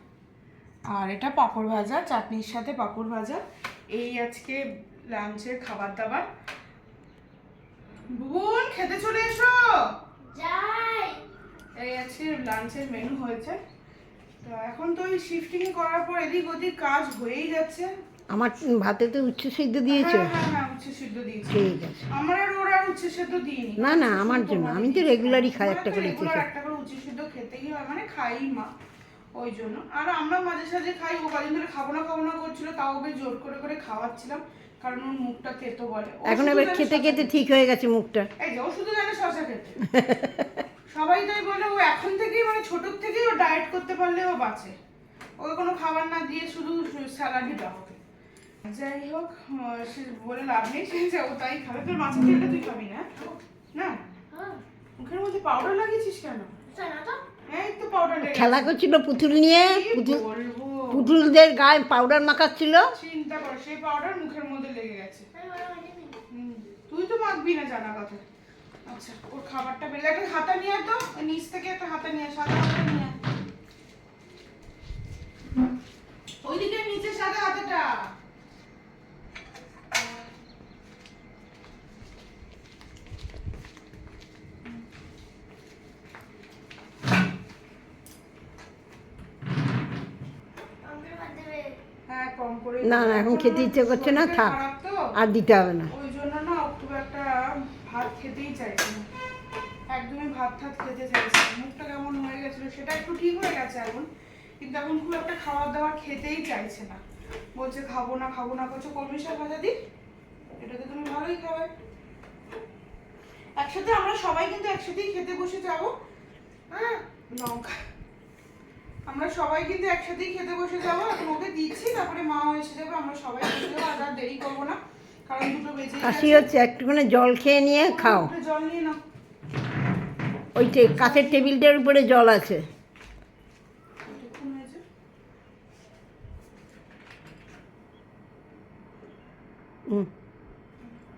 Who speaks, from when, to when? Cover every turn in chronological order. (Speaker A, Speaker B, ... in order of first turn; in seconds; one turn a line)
Speaker A: 0.9-6.3
Speaker A: 8.1-9.6
Speaker B: 10.3-11.2
Speaker A: 11.8-13.6
Speaker A: 14.4-17.9
Speaker C: 18.3-20.3
Speaker A: 19.9-28.7
Speaker C: 21.5-22.1
Speaker C: 23.8-26.4
Speaker A: 29.3-37.4
Speaker C: 36.2-38.3
Speaker A: 38.4-39.9
Speaker C: 39.9-40.5
Speaker A: 40.9-44.7
Speaker A: 45.4-48.0
Speaker A: 48.6-54.0
Speaker B: 54.3-54.6
Speaker A: 55.0-56.5
Speaker B: 56.7-57.2
Speaker A: 57.5-58.8
Speaker C: 58.2-60.2
Speaker A: 59.4-61.1
Speaker C: 60.9-62.9
Speaker A: 62.9-65.3
Speaker B: 65.3-66.2
Speaker A: 66.3-68.2
Speaker A: 68.9-73.2
Speaker A: 76.4-78.0
Speaker B: 90.8-91.7
Speaker A: 92.1-95.1
Speaker C: 92.8-94.6
Speaker C: 95.2-95.9
Speaker A: 95.9-99.0
Speaker A: 99.9-104.1
Speaker A: 104.6-107.0
Speaker A: 107.5-109.7
Speaker A: 110.6-111.7
Speaker A: 113.6-115.9
Speaker A: 116.7-117.8
Speaker A: 119.0-126.5
Speaker C: 126.0-128.3
Speaker A: 127.8-129.0
Speaker C: 130.5-132.6
Speaker A: 130.9-131.5
Speaker A: 134.1-134.8